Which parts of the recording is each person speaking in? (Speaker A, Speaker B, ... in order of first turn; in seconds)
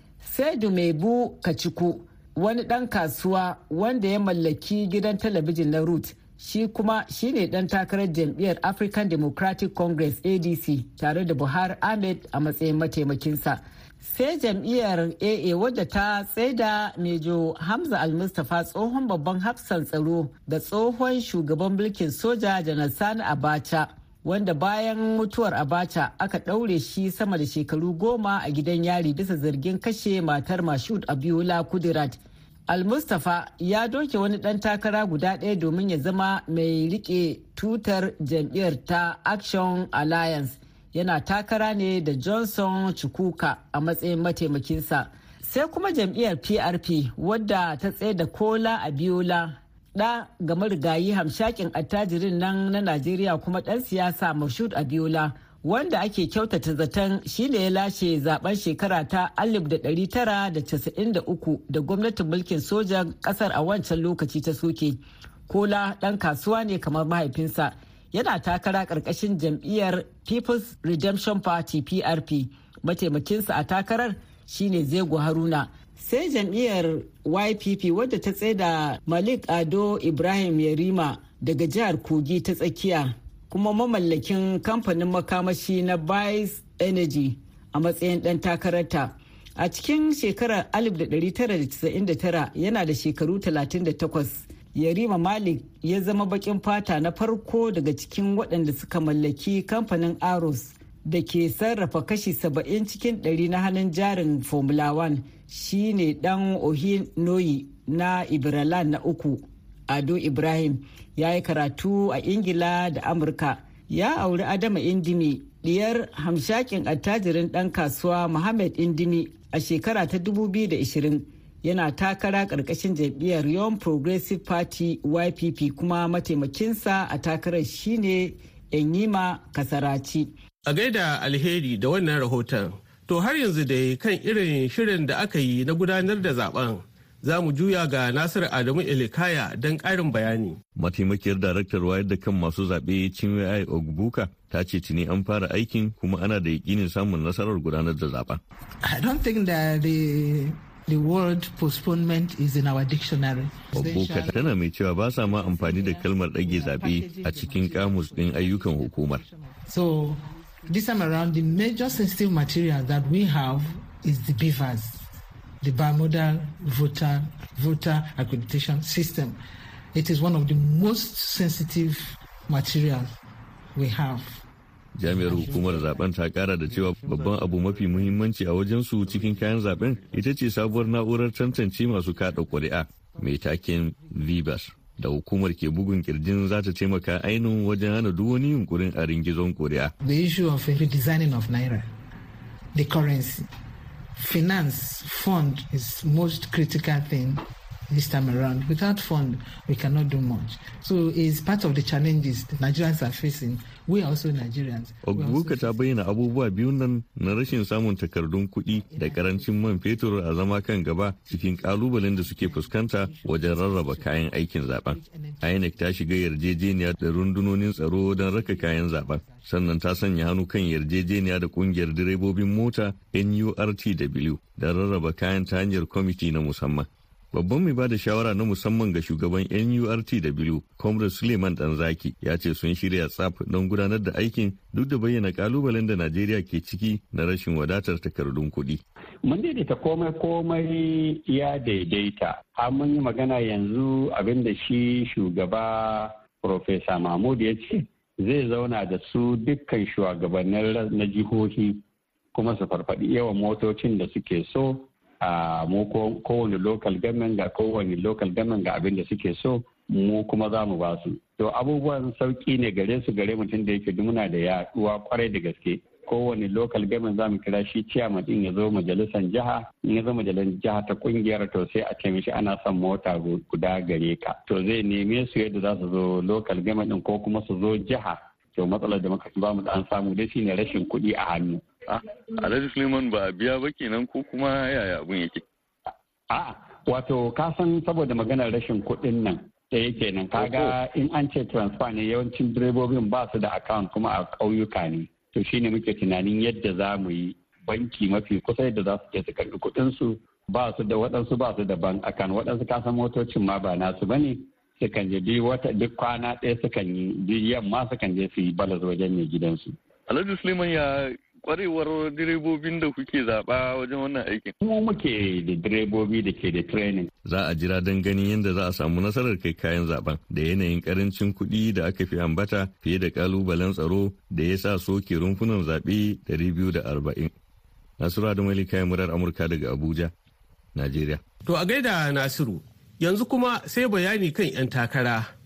Speaker A: 0.2-130.3
Speaker B: 130.7-140.6, 331.5-335.3
Speaker C: 140.8-148.4, 153.7-159.2, 174.9-189.9, 205.0-238.8, 282.4-285.4, 290.4-290.7, 310.1-314.5, 317.2-327.3, 328.0-330.1, 330.8-331.2
Speaker D: 148.8-154.6, 155.2-165.0, 165.6-169.4, 169.9-173.2, 173.8-174.4, 175.0-176.1, 176.7-178.2, 182.2-183.2, 190.0-191.9, 192.7-193.5, 194.2-206.0, 208.7-210.1, 211.3-215.9, 217.9-219.8
Speaker E: 239.2-281.6, 286.3-309.8, 314.6-317.1